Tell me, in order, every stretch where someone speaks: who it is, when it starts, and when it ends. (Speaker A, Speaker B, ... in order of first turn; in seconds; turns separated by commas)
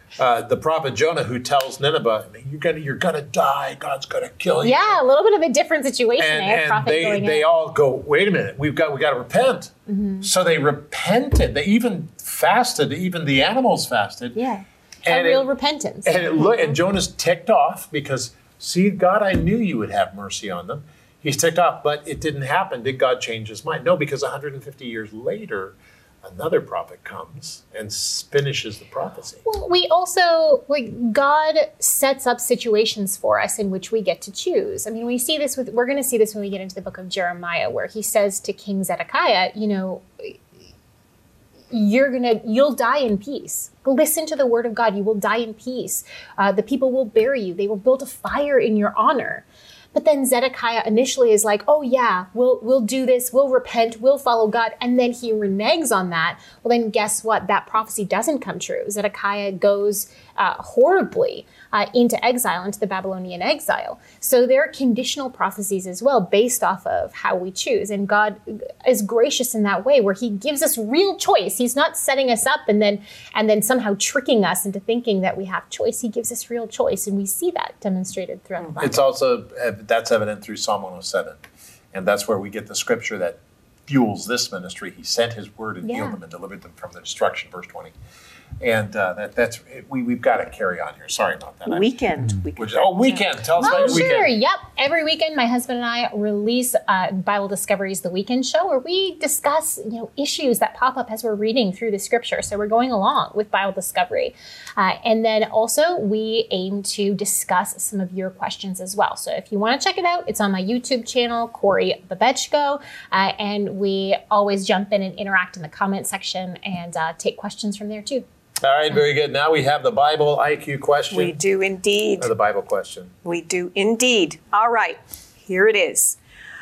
Speaker A: 0.1-5.0, Speaker B: 4.6-7.4, Speaker A: 6.2-14.4, Speaker B: 9.9-10.2, Speaker B: 14.3-16.4, Speaker A: 15.0-15.5, Speaker A: 16.0-29.4, Speaker B: 29.4-40.4, Speaker B: 41.7-79.0, Speaker A: 78.8-81.4, Speaker A: 81.9-87.9, Speaker B: 85.8-86.2, Speaker A: 88.6-94.3, Speaker C: 91.7-93.3, Speaker B: 93.6-118.2, Speaker A: 118.6-121.4, Speaker C: 121.1-122.3, Speaker A: 122.2-123.1, Speaker C: 123.2-126.2